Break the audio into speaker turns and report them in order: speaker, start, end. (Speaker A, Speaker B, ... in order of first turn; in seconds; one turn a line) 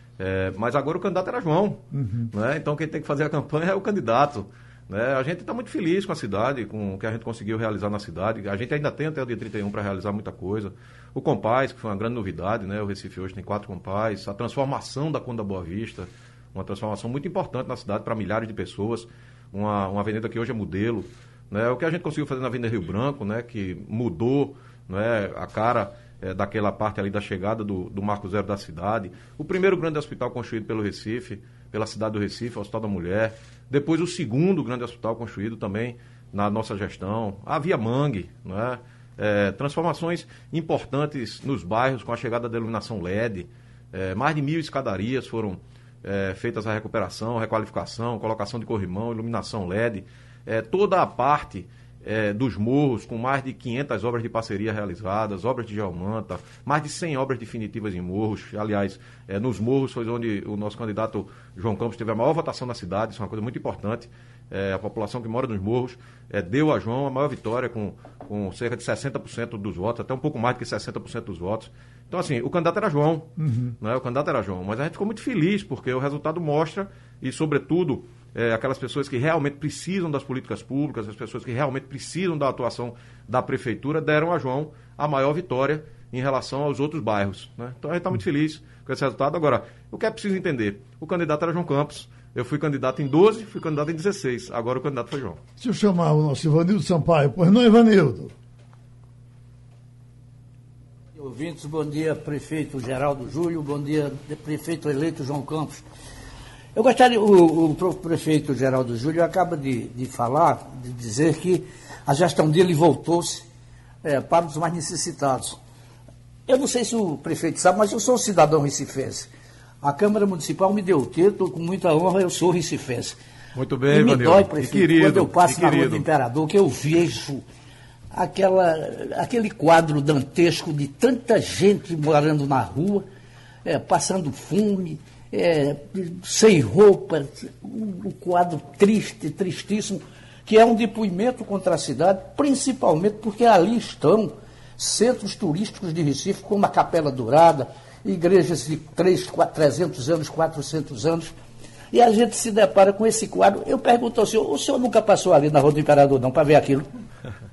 Speaker A: 0.2-73.3
Speaker B: 1.9-2.3
Speaker B: 73.4-73.7
Speaker A: 73.8-95.4
Speaker B: 95.6-98.3
Speaker C: 101.2-105.8
Speaker C: 106.7-113.4
Speaker C: 114.0-115.6
Speaker C: 116.5-119.3
Speaker C: 119.8-123.2
Speaker A: 123.5-126.0
Speaker C: 123.9-127.4
Speaker C: 128.1-133.0
Speaker C: 133.6-151.3
Speaker C: 151.9-156.9